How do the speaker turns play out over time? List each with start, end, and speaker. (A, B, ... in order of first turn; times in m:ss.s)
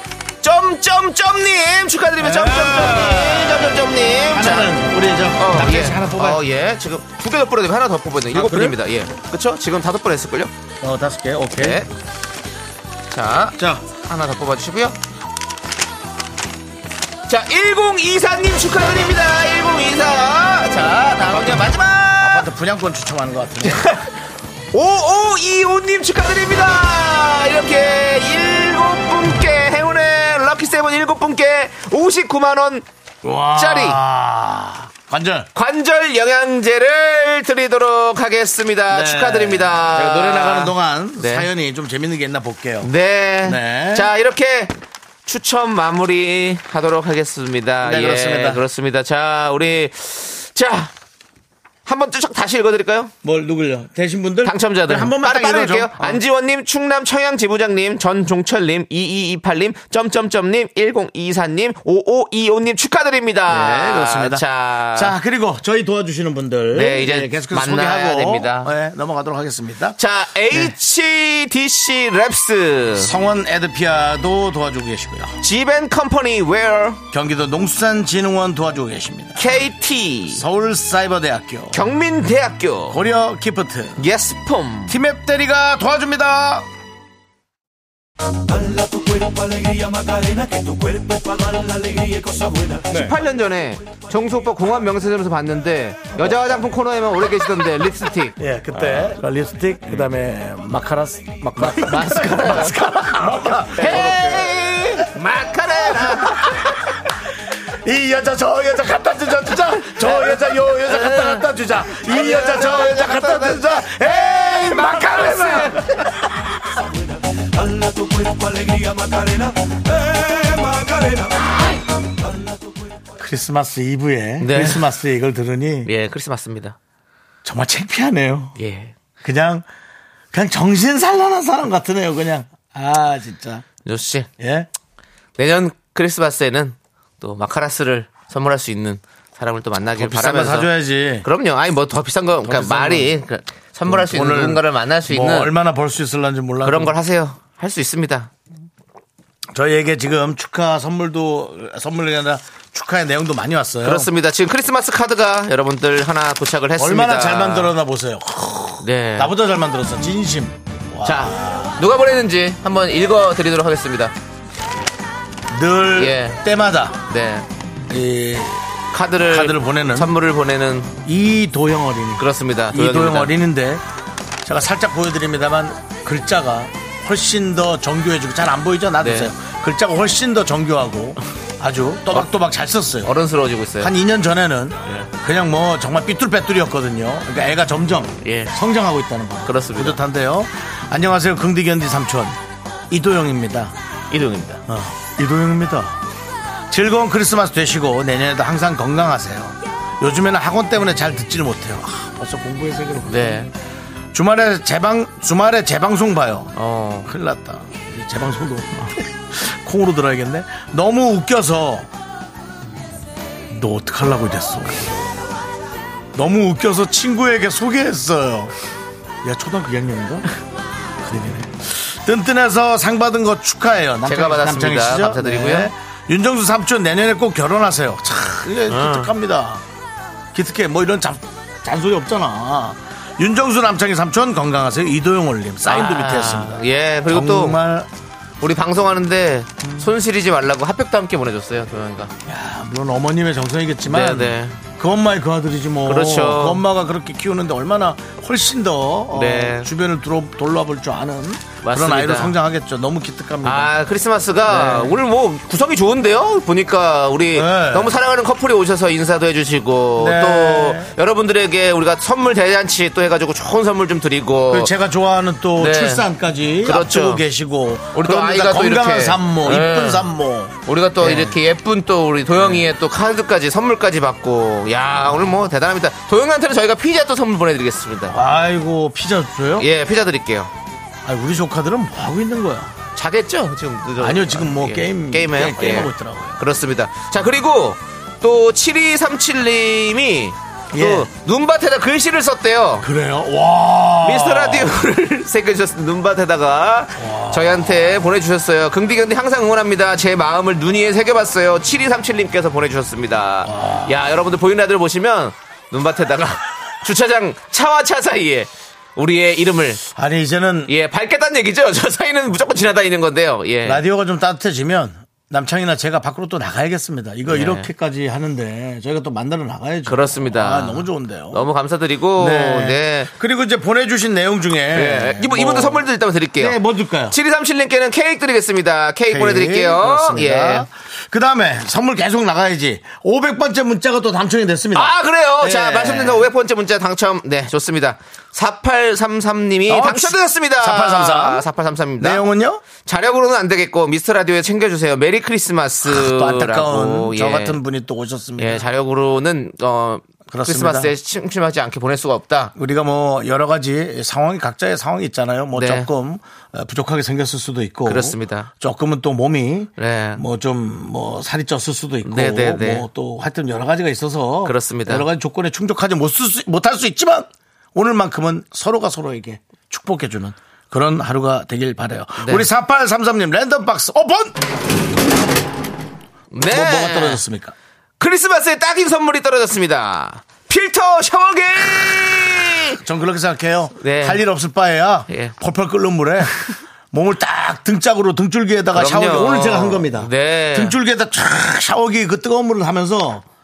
0:00.4-0:04.7 A
0:02.2-0:06.4 B
0:05.4-0:10.5 A
0:08.3-0:08.8 B
0:10.8-0:11.9 B
0:11.6-0:11.9 A
0:13.1-0:15.0 A
0:13.6-0:13.8 B
0:17.3-0:22.5 A
0:21.3-0:21.7 B
0:22.2-0:23.9 B
0:23.6-0:24.1 A
0:24.7-0:32.9 A
0:33.2-0:35.5 B
0:33.5-0:34.0 A
0:35.6-0:41.5 A
0:38.9-0:42.9 B
0:42.8-0:44.7 A
0:43.4-0:44.1 B
0:45.3-0:50.9 A
0:47.8-0:48.6 B
0:51.8-0:53.1 A
0:53.2-0:56.2 B
0:54.4-1:05.2 A
1:03.5-1:10.0 B
1:06.7-1:08.7 A
1:10.0-1:13.1 A
1:13.0-1:15.4 B
1:15.4-1:17.0 A
1:17.1-1:19.5 B
1:19.4-1:20.4 A
1:20.3-1:21.8 B
1:21.7-1:23.0 A
1:22.9-1:24.0 B
1:24.0-1:25.0 A
1:24.9-1:26.7 B
1:30.2-1:30.7 B
1:32.9-1:39.1 A
1:38.4-1:45.1 B
1:41.6-1:43.0 A
1:43.7-1:46.8 A
1:45.8-1:47.1 B
1:47.7-1:56.6 B
1:50.0-1:53.6 A
1:54.7-1:55.9 A
1:57.8-1:59.4 B
2:00.1-2:00.9 B
2:03.2-2:05.9 B
2:04.4-2:04.9 A
2:05.8-2:06.8 A
2:07.4-2:08.6 B
2:08.6-2:08.9 A
2:09.2-2:09.6 B
2:10.3-2:13.6 B
2:13.8-2:14.3 A
2:14.4-2:14.7 B
2:15.4-2:20.7 A
2:20.0-2:21.3 B
2:21.2-2:25.5 A
2:22.4-2:23.2 B
2:23.9-2:27.0 B
2:26.6-2:28.3 A
2:29.5-2:34.1 B
2:33.8-2:37.7 A
2:36.8-2:41.8 B
2:38.8-2:39.3 A
2:41.0-2:44.1 A
2:45.5-2:47.0 B
2:46.0-2:46.4 A
2:47.1-2:47.5 A
2:47.9-2:48.6 B
2:48.9-2:50.9 A
2:49.3-2:50.1 B
2:51.0-2:53.8 B
2:52.2-2:53.4 A
2:54.4-3:03.1 B
2:59.0-2:59.3 A
3:03.0-3:03.9 A
3:03.8-3:12.4 B
3:08.2-3:08.5 A
3:09.4-3:10.0 A
3:12.9-3:13.7 B
3:14.1-3:14.6 A
3:14.7-3:16.0 B
3:16.7-3:23.5 B
3:23.1-3:23.5 A
3:24.1-3:26.5 B
3:26.6-3:27.1 A
3:27.0-3:31.9 B
3:33.5-3:35.1 B
3:36.2-3:38.5 B
3:39.2-3:40.3 B
3:41.0-3:49.6 B
3:44.1-3:45.7 A
3:48.7-3:49.1 A
3:50.3-3:57.9 B
3:55.7-3:57.6 A
3:58.4-4:02.1 A
3:59.6-3:59.9 B
4:02.2-4:13.7 B
4:03.9-4:04.6 A
4:05.9-4:06.6 A
4:09.1-4:09.7 A
4:11.6-4:12.4 A
4:13.4-4:24.7 A
4:14.5-4:15.0 B
4:17.3-4:18.0 B
4:20.0-4:20.9 B
4:24.5-4:31.4 B
4:25.6-4:26.1 A
4:26.6-4:27.2 A
4:27.9-4:30.1 A
4:30.6-4:38.2 A
4:32.4-4:32.7 B
4:38.1-4:39.7 B
4:39.6-4:40.5 A
4:41.0-4:42.7 B
4:43.0-4:52.9 A
4:44.0-4:46.4 B
4:50.7-4:51.1 B
4:52.8-4:54.8 B
4:54.0-5:09.8 A
4:57.0-4:58.1 B
5:03.4-5:04.0 B
5:09.9-5:10.7 B
5:10.7-5:13.8 A
5:13.6-5:21.5 B
5:17.3-5:17.7 A
5:19.9-5:23.1 A
5:22.2-5:25.8 B
5:24.7-5:26.6 A
5:26.4-5:27.2 B
5:27.1-5:30.7 A
5:29.1-5:36.3 B
5:34.7-5:47.6 A
5:39.7-5:41.4 B
5:42.0-5:42.6 B
5:45.8-5:48.7 B
5:48.4-5:52.5 A
5:50.3-5:50.9 B
5:52.6-6:14.4 B
5:55.5-5:55.9 A
5:57.9-5:58.5 A
5:59.8-6:00.2 A
6:02.0-6:02.9 A
6:04.4-6:05.1 A
6:12.2-6:12.5 A
6:16.3-6:17.2 A
6:16.4-6:17.6 B
6:18.0-6:22.8 A
6:22.8-6:33.2 B
6:23.8-6:24.2 A
6:25.1-6:25.3 A
6:28.7-6:30.8 A